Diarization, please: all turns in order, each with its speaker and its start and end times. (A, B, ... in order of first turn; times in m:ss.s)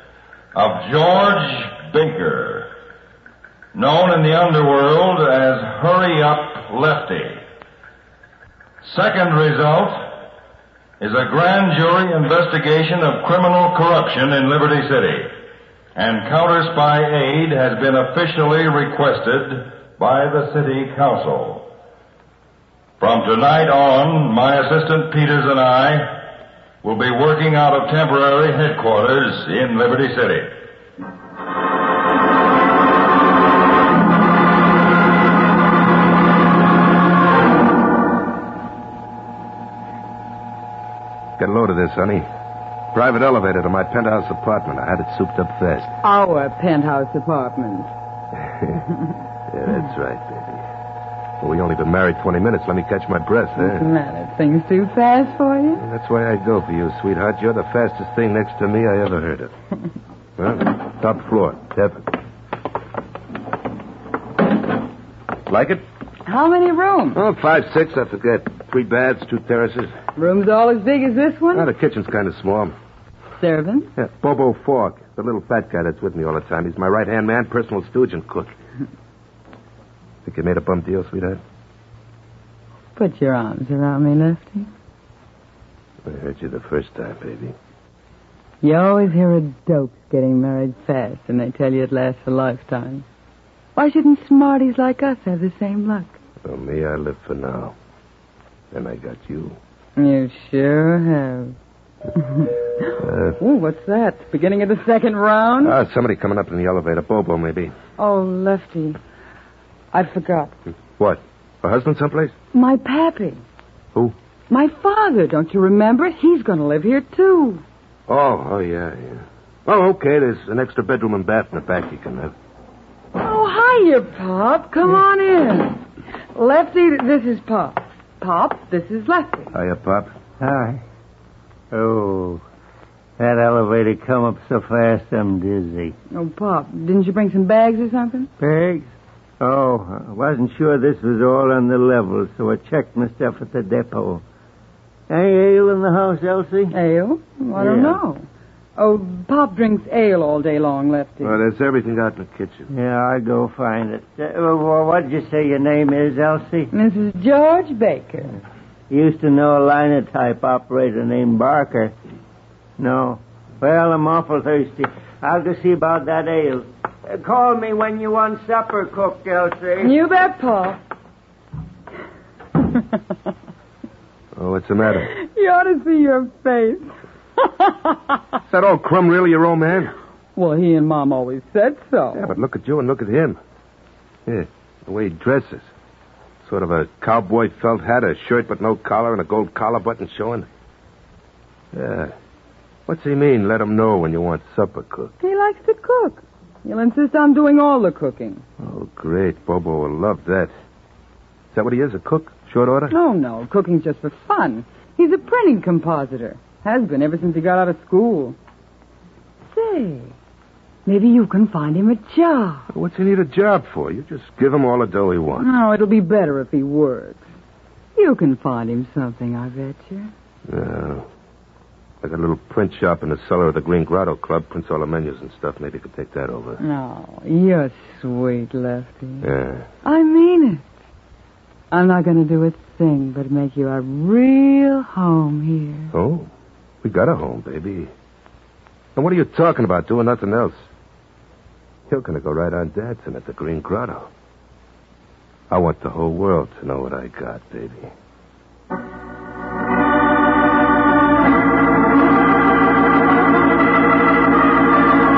0:00.5-0:02.7 A
0:03.7-0:07.4 A
0:08.8-0:10.2 A
0:11.0-0:15.3 A
0:16.0-0:21.7 A
0:23.0-0:26.2 A
0:26.8-0:30.5 A
0:41.4-0:42.3 B
0:42.9-0:45.9 B
0:46.0-0:47.9 C
0:48.4-0:48.8 B
0:49.5-0:50.6 B
0:51.4-0:53.9 B
0:53.6-0:55.8 C
0:55.8-0:59.5 B
1:00.4-1:02.1 B
1:05.5-1:05.8 B
1:06.3-1:07.2 C
1:07.1-1:10.0 B
1:10.2-1:11.7 C
1:11.5-1:12.8 B
1:13.4-1:13.9 C
1:14.0-1:18.5 B
1:20.2-1:21.4 B
1:23.0-1:24.7 C
1:26.0-1:27.6 B
1:28.6-1:33.0 C
1:33.8-1:36.2 C
1:36.4-1:37.8 B
1:38.7-1:39.6 B
1:40.0-1:41.6 C
1:42.2-1:42.5 C
1:43.0-1:43.4 B
1:43.4-1:45.8 C
1:45.6-1:47.7 B
1:48.0-1:49.0 C
1:49.9-1:50.5 C
1:51.0-1:52.3 B
1:52.5-1:53.4 C
1:54.5-1:57.6 C
1:58.1-2:02.3 B
2:03.2-2:05.8 C
2:06.4-2:09.5 C
2:09.5-2:10.1 B
2:10.4-2:10.8 D
2:11.7-2:12.4 D
2:13.2-2:16.0 D
2:16.1-2:18.3 C
2:18.4-2:24.2 D
2:25.1-2:26.7 D
2:26.7-2:28.2 C
2:27.6-2:28.0 D
2:28.8-2:31.4 C
2:31.2-2:32.7 B
2:32.7-2:36.7 D
2:36.7-2:38.4 C
2:38.9-2:41.9 D
2:42.8-2:49.9 D
2:49.8-2:50.8 C
2:54.4-2:55.1 B
2:55.1-2:58.1 C
2:58.5-2:59.9 B
3:00.4-3:02.3 C
3:02.1-3:03.4 B
3:04.3-3:05.7 B
3:06.4-3:10.5 B
3:11.7-3:12.1 B
3:12.9-3:15.1 B
3:15.2-3:18.4 C
3:18.6-3:20.5 B
3:21.5-3:23.0 B
3:22.9-3:28.4 C
3:29.5-3:30.1 C
3:30.9-3:32.7 C
3:32.7-3:35.5 B
3:35.4-3:37.2 C
3:38.0-3:40.1 C
3:40.5-3:41.1 B
3:42.0-3:46.6 B
3:46.6-3:49.3 C
3:49.2-3:49.7 B
3:49.8-3:50.7 C
3:51.7-3:55.9 C
3:55.9-3:56.3 B
3:56.8-3:57.9 B
3:59.0-4:00.6 B
4:01.9-4:04.1 B
4:05.5-4:07.9 B